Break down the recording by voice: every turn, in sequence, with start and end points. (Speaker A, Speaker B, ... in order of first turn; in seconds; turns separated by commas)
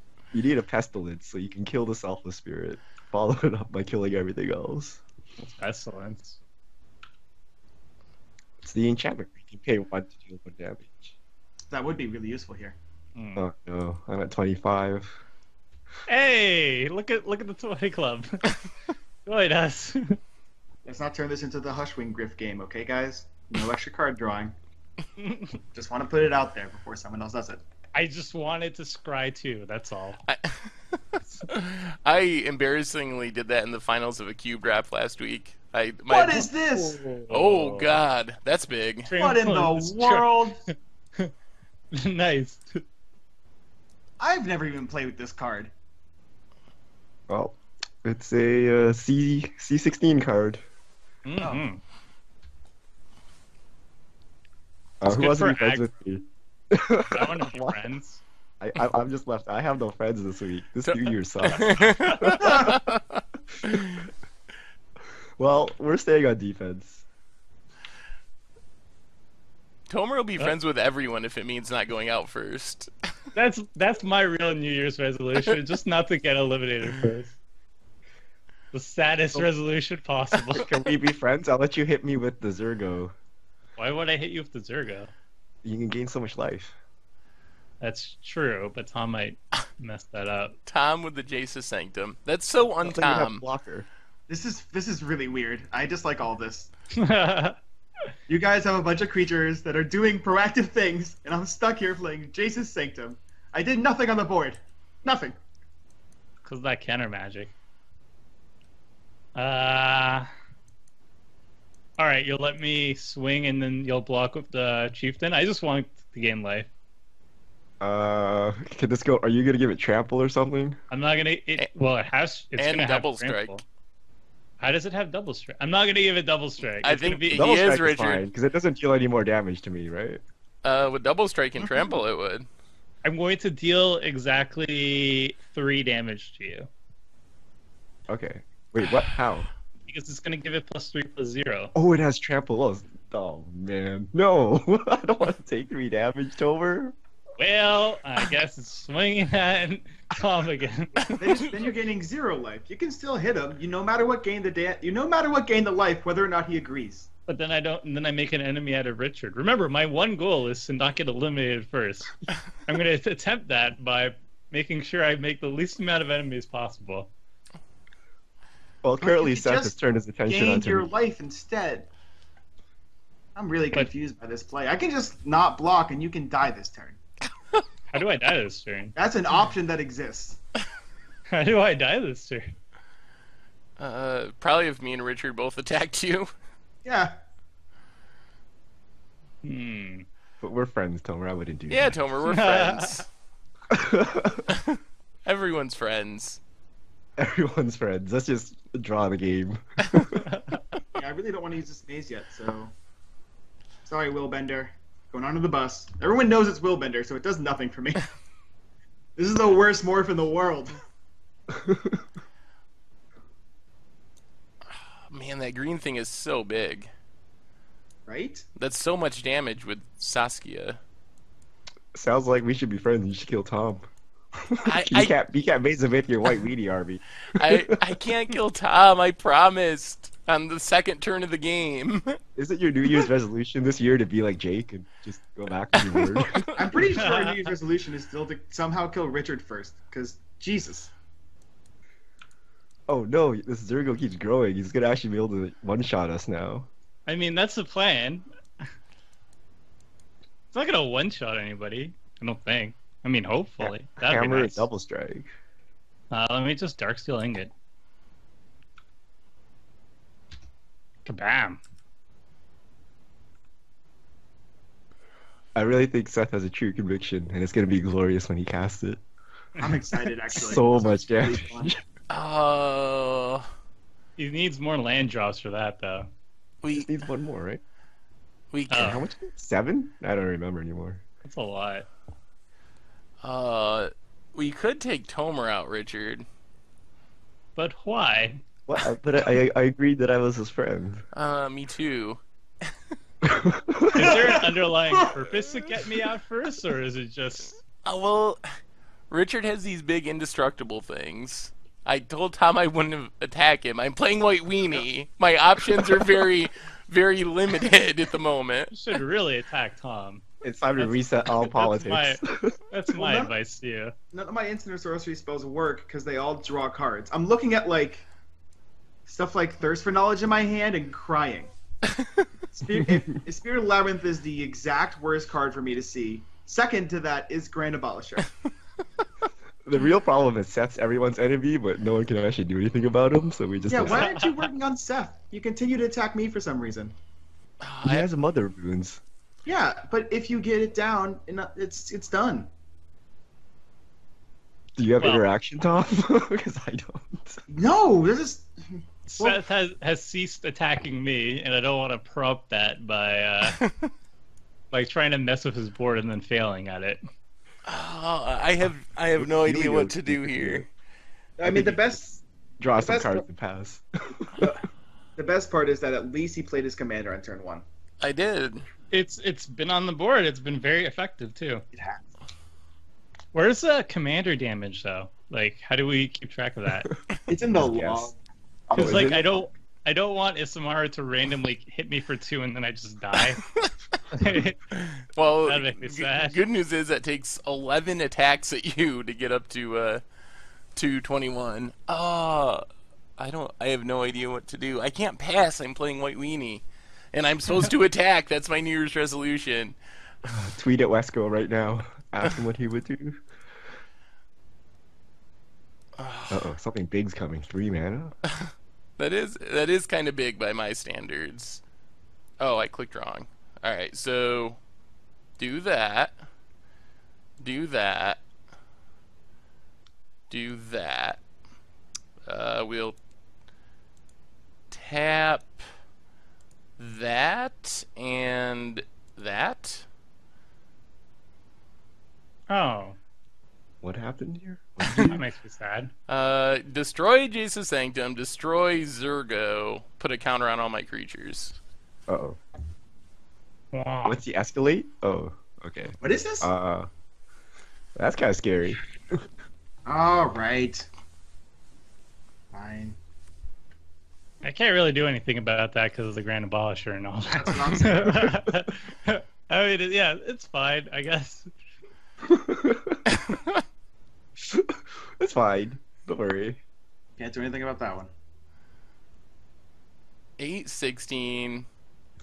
Speaker A: 0.3-5.0, Speaker B: 5.4-6.4, Speaker A: 8.6-11.2, Speaker C: 11.7-12.8, Speaker B: 13.2-13.5, Speaker A: 13.4-15.2, Speaker B: 16.1-18.4, Speaker B: 19.3-20.2, Speaker C: 20.9-24.6, Speaker B: 25.2-25.6, Speaker C: 25.7-27.6, Speaker B: 27.9-30.2, Speaker D: 30.3-36.5, Speaker C: 36.1-37.0, Speaker B: 36.7-37.9, Speaker D: 37.3-39.1, Speaker B: 39.1-41.3, Speaker C: 39.1-40.6, Speaker B: 41.9-42.8, Speaker C: 44.2-45.7, Speaker A: 47.3-50.6, Speaker B: 51.3-51.8, Speaker A: 55.0-57.9, Speaker B: 55.1-55.9, Speaker B: 57.1-58.2, Speaker A: 58.6-62.8, Speaker D: 60.9-64.1, Speaker A: 65.4-67.0, Speaker D: 69.9-72.9, Speaker B: 73.3-77.4, Speaker B: 78.7-80.7, Speaker A: 80.5-83.1, Speaker B: 83.8-85.1, Speaker A: 85.6-86.8, Speaker B: 87.8-90.6, Speaker D: 90.7-93.4, Speaker A: 92.8-93.9, Speaker C: 94.3-96.7, Speaker B: 96.9-97.6, Speaker C: 98.3-105.4, Speaker B: 106.5-107.5, Speaker B: 109.3-110.3, Speaker B: 112.0-116.7, Speaker A: 117.8-120.8, Speaker B: 120.9-123.6, Speaker D: 122.6-123.5, Speaker B: 124.6-127.5, Speaker D: 126.8-128.3, Speaker A: 127.3-130.2, Speaker D: 130.6-132.5, Speaker B: 133.0-136.7, Speaker A: 138.1-139.5, Speaker B: 139.9-141.7, Speaker A: 141.8-147.0, Speaker B: 147.4-151.4, Speaker C: 151.2-157.1, Speaker B: 157.3-167.1, Speaker A: 168.8-170.9, Speaker C: 169.0-169.7, Speaker C: 170.3-171.9, Speaker C: 173.4-177.0, Speaker B: 177.9-179.0, Speaker C: 179.0-180.4, Speaker B: 181.3-182.5, Speaker D: 183.8-186.3, Speaker C: 186.8-187.1, Speaker B: 189.4-190.1, Speaker A: 190.4-192.0, Speaker D: 191.7-193.1, Speaker B: 192.3-193.1, Speaker A: 193.7-194.5, Speaker D: 194.5-196.4, Speaker A: 197.2-200.2, Speaker B: 200.2-200.6, Speaker C: 200.9-202.7, Speaker C: 203.9-208.1, Speaker C: 209.2-210.8, Speaker A: 211.5-212.0, Speaker D: 214.7-216.9, Speaker C: 218.1-218.5, Speaker D: 218.6-220.8, Speaker A: 221.9-228.0, Speaker D: 224.6-225.1, Speaker D: 227.3-232.2, Speaker A: 232.4-237.0, Speaker D: 235.7-236.8, Speaker C: 236.6-240.9, Speaker B: 237.0-237.4, Speaker A: 242.9-246.7, Speaker B: 247.1-248.3, Speaker B: 250.5-254.7, Speaker A: 253.6-255.3, Speaker B: 256.1-257.5, Speaker B: 261.1-261.6, Speaker A: 265.6-269.0, Speaker C: 269.6-271.7, Speaker A: 270.3-271.8, Speaker D: 272.1-273.5, Speaker B: 274.2-276.1, Speaker D: 276.6-276.9, Speaker A: 276.8-277.6, Speaker D: 278.5-279.0, Speaker B: 278.7-279.0, Speaker A: 278.7-281.0, Speaker B: 281.2-281.9, Speaker D: 283.2-286.2, Speaker B: 287.6-288.4, Speaker A: 288.7-291.1, Speaker D: 291.1-292.7, Speaker A: 293.2-294.4, Speaker B: 293.9-297.6, Speaker C: 294.0-294.4, Speaker D: 297.8-298.4, Speaker D: 299.1-308.7, Speaker B: 308.7-310.2, Speaker A: 310.4-312.6, Speaker B: 310.8-313.9, Speaker C: 312.9-313.3, Speaker C: 314.1-318.1, Speaker C: 319.1-321.5, Speaker C: 322.5-328.3, Speaker A: 329.7-334.1, Speaker C: 333.7-336.9, Speaker D: 337.6-338.1, Speaker A: 337.8-339.0, Speaker C: 339.5-342.5, Speaker A: 344.8-347.4, Speaker B: 345.0-345.3, Speaker C: 347.5-348.5, Speaker B: 349.1-353.6, Speaker D: 353.6-353.9, Speaker B: 354.7-357.1, Speaker D: 357.7-360.7, Speaker A: 359.2-360.7, Speaker C: 361.4-362.0, Speaker A: 361.4-364.5, Speaker C: 362.8-363.2, Speaker C: 364.4-364.6, Speaker C: 365.2-367.6, Speaker D: 368.0-368.7, Speaker B: 368.9-371.6, Speaker C: 371.7-372.1, Speaker B: 373.3-376.9, Speaker C: 377.3-378.2, Speaker A: 377.5-378.1, Speaker A: 378.7-379.3, Speaker C: 378.7-379.2, Speaker B: 378.8-383.4, Speaker D: 383.4-383.7, Speaker B: 384.1-384.6, Speaker D: 384.7-390.0, Speaker B: 385.5-386.4, Speaker D: 390.8-392.6, Speaker D: 393.2-399.8, Speaker A: 400.2-403.2, Speaker D: 406.0-406.5, Speaker A: 406.3-408.1, Speaker D: 408.4-411.6, Speaker D: 412.4-414.6, Speaker D: 415.4-416.2, Speaker D: 417.4-418.2, Speaker D: 420.3-421.2, Speaker D: 422.2-423.0, Speaker D: 424.7-425.6, Speaker D: 426.8-429.9, Speaker B: 432.5-433.0, Speaker A: 433.8-435.2, Speaker B: 434.9-435.9, Speaker D: 436.1-441.6, Speaker A: 442.1-442.4, Speaker B: 443.7-444.2, Speaker A: 444.1-446.9, Speaker C: 446.0-446.5, Speaker A: 448.0-449.2, Speaker C: 449.9-450.9, Speaker C: 452.5-453.0, Speaker B: 454.4-461.5, Speaker C: 457.3-458.3, Speaker A: 462.2-463.0, Speaker D: 463.1-463.6, Speaker A: 464.4-466.6, Speaker C: 467.2-468.1, Speaker D: 470.4-471.7